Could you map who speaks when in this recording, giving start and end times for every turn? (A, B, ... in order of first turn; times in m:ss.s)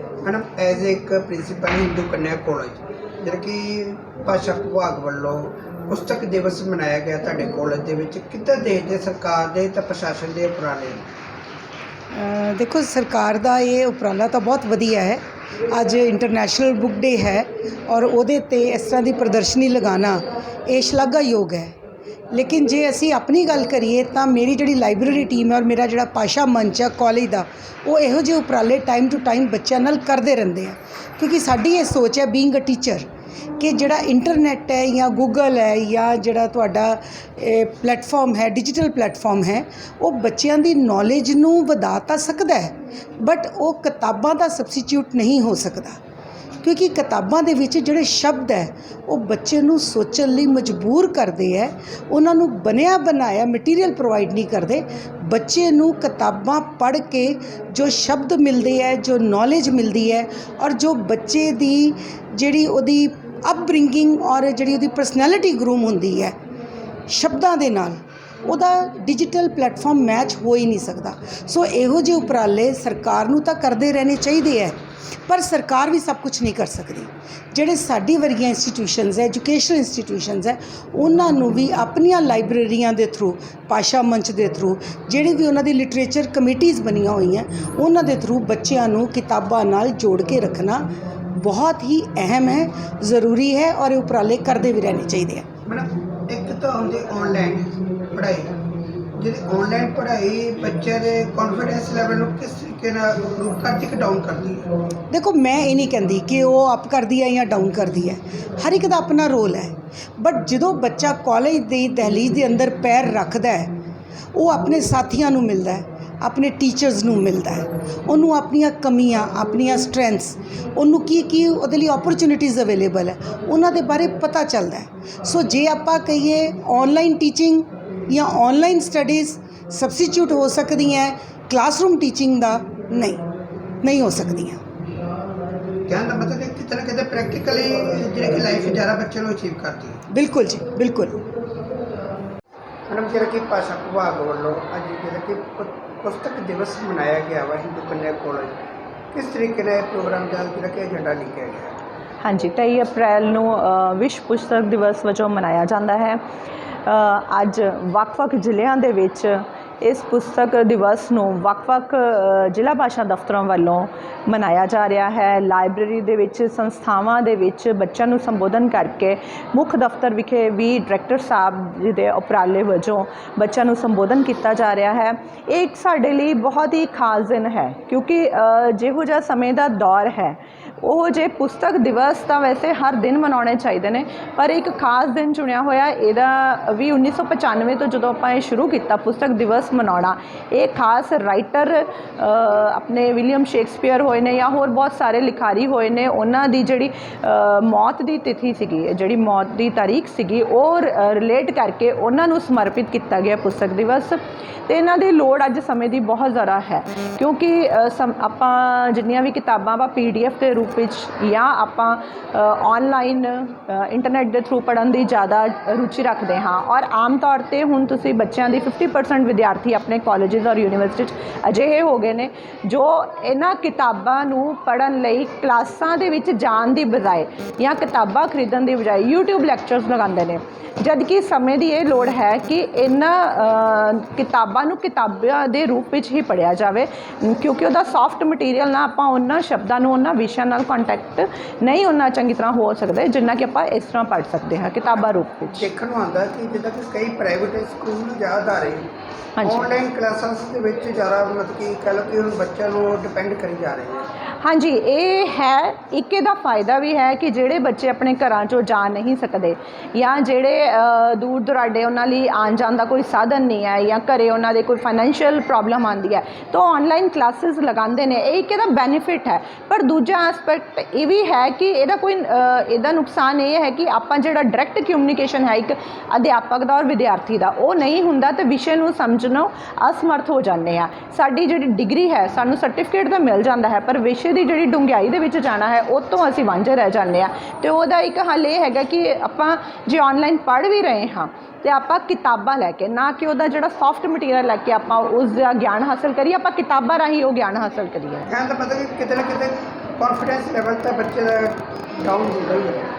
0:00.2-0:11.1 A
0:12.1-0:21.8 B
0:22.3-0:33.1 B
0:33.6-0:46.0 B
0:46.6-1:06.4 B
1:07.1-1:35.5 B
1:35.7-1:38.6 A
1:39.2-1:44.7 A
1:45.1-1:53.7 B
1:54.3-2:13.2 B
2:13.8-2:14.6 B
2:15.9-2:20.0 A
2:20.1-2:21.2 B
2:22.9-2:28.6 A
2:29.1-2:31.8 A
2:32.2-2:36.2 C
2:36.9-4:05.7 C
4:05.5-4:08.9 A
4:09.4-4:09.7 C
4:09.4-4:14.1 A
4:14.4-4:58.3 C
4:58.3-5:02.9 A